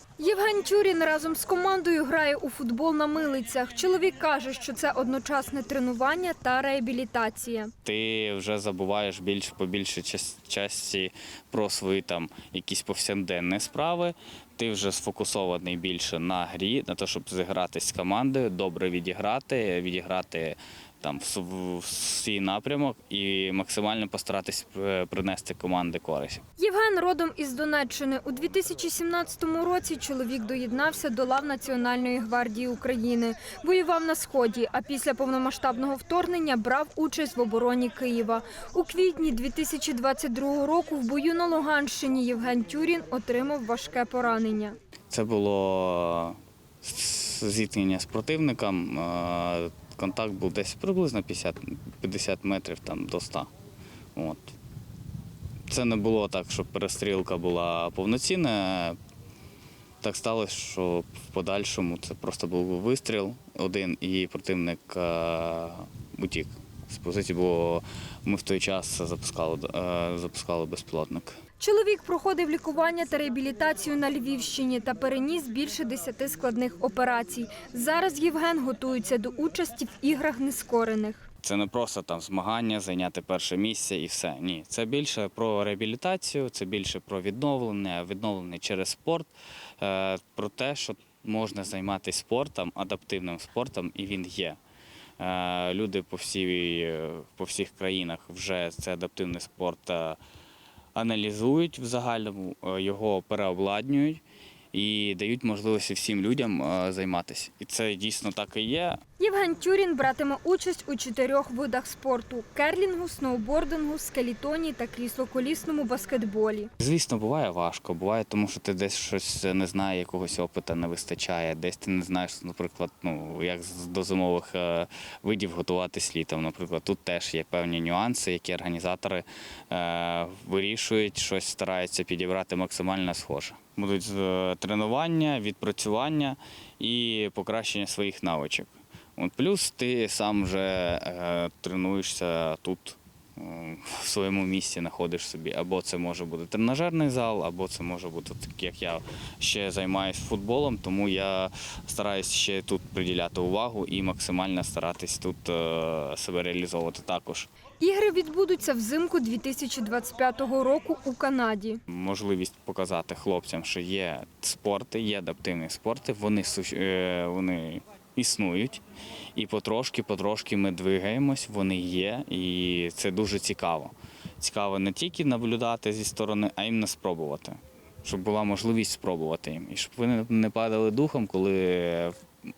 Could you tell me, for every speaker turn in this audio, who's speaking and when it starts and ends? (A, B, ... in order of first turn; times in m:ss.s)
0:00.2-0:07.7 A
0:07.8-0:26.4 B
0:26.6-0:44.8 A
0:45.1-0:53.5 B
0:54.2-0:54.6 B
0:55.7-0:59.0 B
1:00.0-1:11.4 B
1:11.6-1:21.3 A
1:21.4-1:34.6 B
1:35.2-1:40.2 B
1:41.0-1:44.2 B
1:44.7-1:49.0 B
1:49.2-1:56.7 A
1:56.8-2:37.5 B
2:37.8-2:41.8 A
2:41.9-2:48.8 B
2:49.4-3:02.2 B